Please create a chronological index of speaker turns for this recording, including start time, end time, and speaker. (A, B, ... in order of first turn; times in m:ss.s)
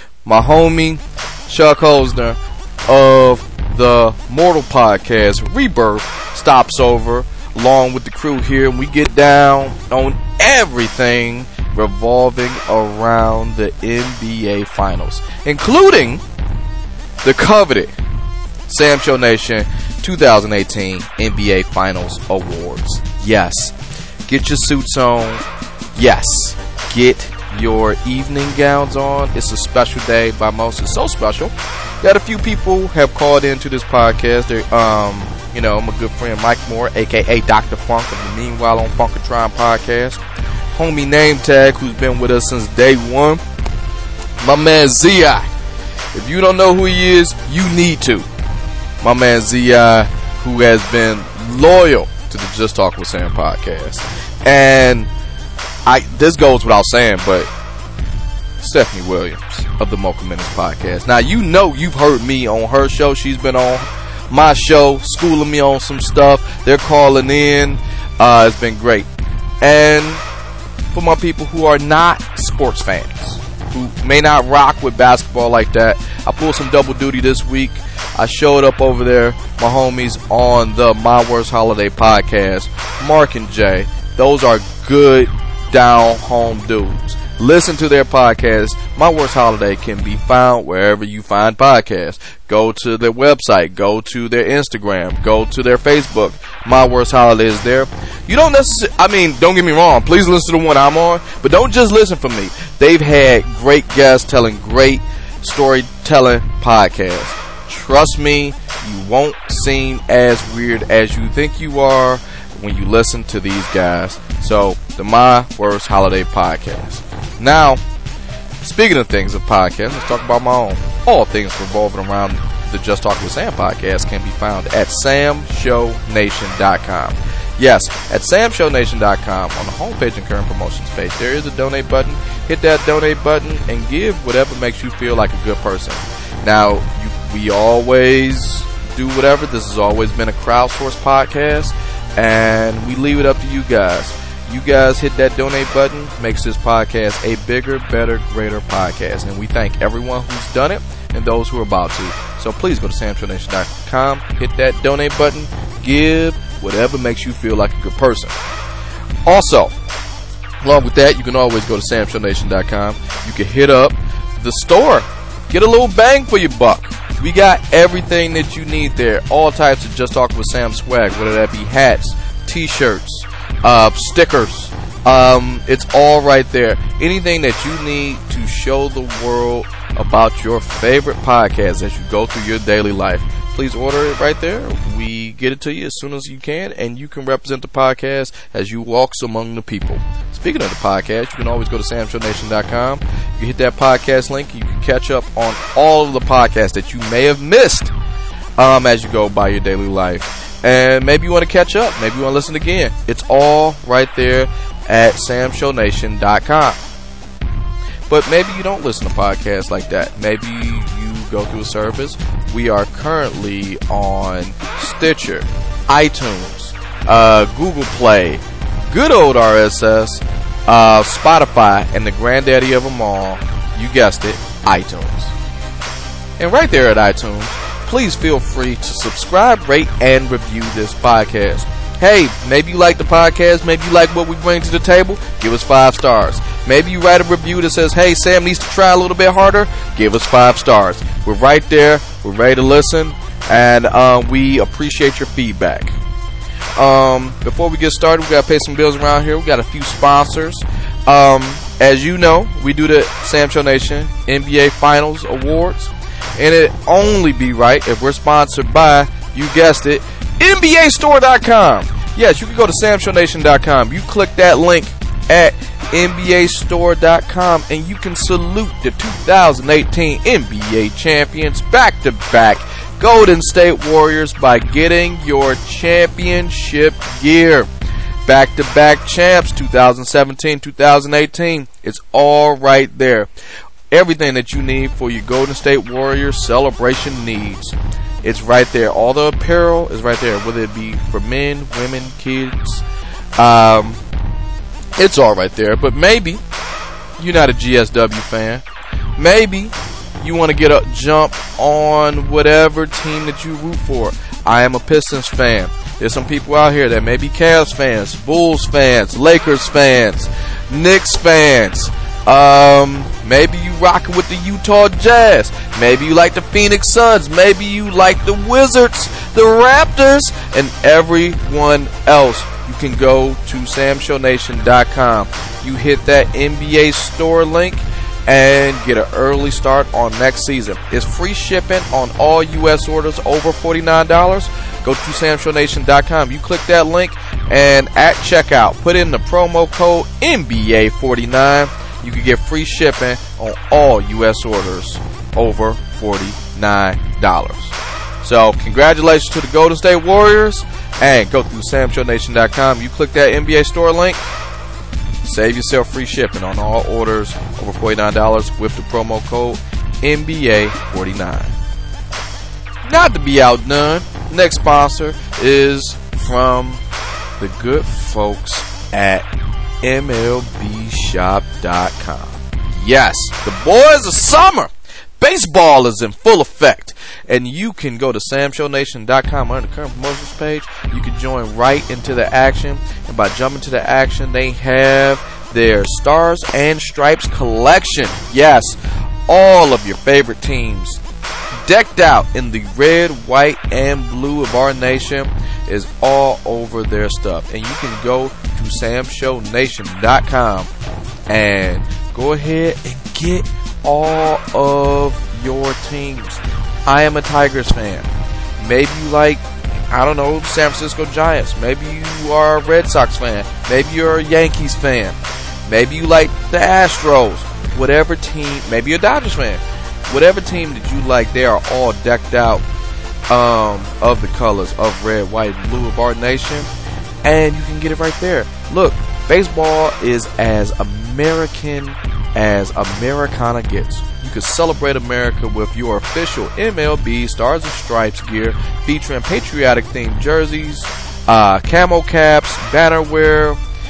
0:00.2-0:16.2 A
0:17.2-0:17.9 A
0:18.7-0:23.7 A
0:24.3-0:25.4 A
0:26.0-0:40.2 A
0:40.7-0:43.4 A
0:44.4-0:45.5 A
0:46.1-0:48.3 A
0:49.0-0:55.1 A
0:55.9-0:57.5 A
0:58.6-1:09.1 A
1:09.6-1:10.2 A
1:10.9-1:57.8 A
1:58.6-2:38.4 A
2:39.3-2:39.7 A
2:40.6-3:17.9 A
3:18.6-3:26.8 A
3:28.1-3:45.3 A
3:46.4-4:06.0 A
4:06.8-4:37.7 A
4:38.3-4:43.3 A
4:43.9-4:52.8 A
4:53.4-4:54.0 A
4:55.0-4:56.4 A
4:57.2-4:58.6 A
4:59.2-5:54.2 A
5:55.2-6:01.5 A
6:02.8-6:06.8 A
6:07.4-6:09.3 A
6:09.8-6:28.8 A
6:29.3-6:31.0 A
6:31.6-6:40.7 A
6:41.3-7:02.6 A
7:03.3-7:06.7 A
7:07.2-7:23.6 A